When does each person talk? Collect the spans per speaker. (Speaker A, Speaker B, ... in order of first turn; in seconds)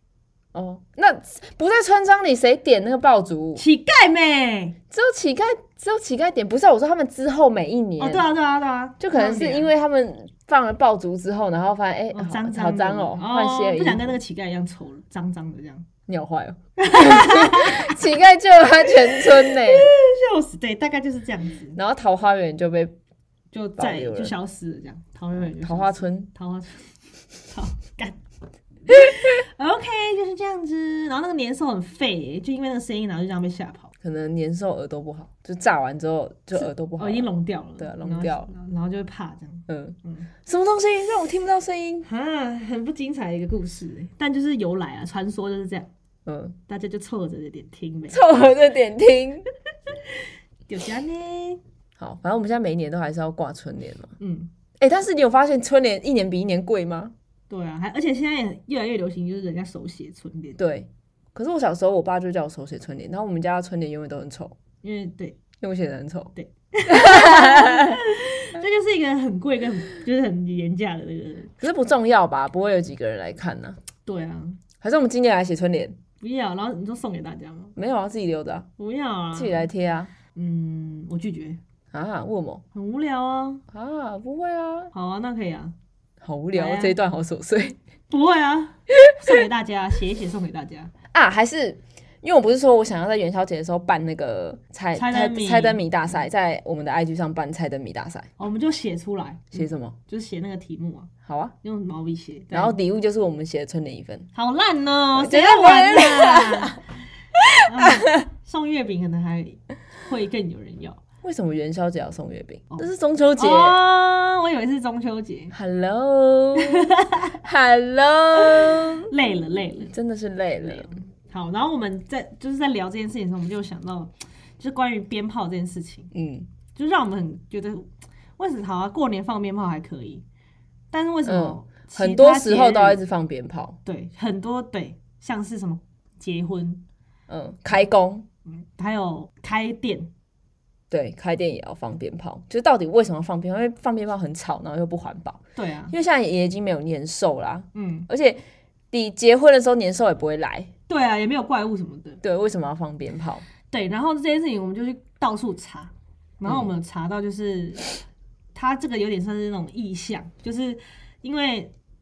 Speaker A: 0.5-3.6, 4.9-8.3, 9.0-14.2, 16.1-19.9, 21.8-22.9, 23.8-24.3, 25.4-26.3, 34.0-38.5, 39.7-42.1, 46.3-46.6, 48.1-49.5, 52.0-54.1, 54.8-57.1, 60.6-64.5, 65.6-66.3, 66.9-68.0, 71.6-73.8, 74.8-76.0, 77.8-78.7, 79.3-80.1, 81.9-82.6, 83.7-84.9, 86.2-87.8, 91.1-98.3, 99.5-100.0, 101.3-101.5, 102.5-104.3, 105.2-106.8, 107.5-108.2, 111.2-113.8, 115.5-119.1, 119.9-120.9, 126.1-126.5, 131.2-133.8, 137.3-138.2, 140.9-150.7, 152.2-153.4
Speaker B: 3.6-4.8, 8.0-9.7, 12.1-15.9, 16.8-18.0, 18.9-21.8, 23.5-26.9, 27.4-28.2, 28.9-33.9, 36.6-40.3, 42.0-45.9, 46.7-48.2, 50.7-51.6, 54.2-54.5, 57.5-60.6, 64.8-65.4, 66.3-71.5, 74.0-74.6, 76.2-77.8, 78.8-79.7, 80.3-81.6, 82.7-83.6, 84.9-85.8, 86.5-87.0, 88.1-90.9, 94.9-95.8, 98.4-101.1, 101.6-102.8, 104.3-106.9, 107.7-111.0, 112.7-115.5, 116.6-117.4, 118.4-119.9, 120.6-126.1, 126.8-130.2, 130.9-133.0, 133.8-136.8, 138.5-140.1, 145.6-145.9, 147.7-148.1, 150.9-152.2, 153.7-157.9, 158.5-161.7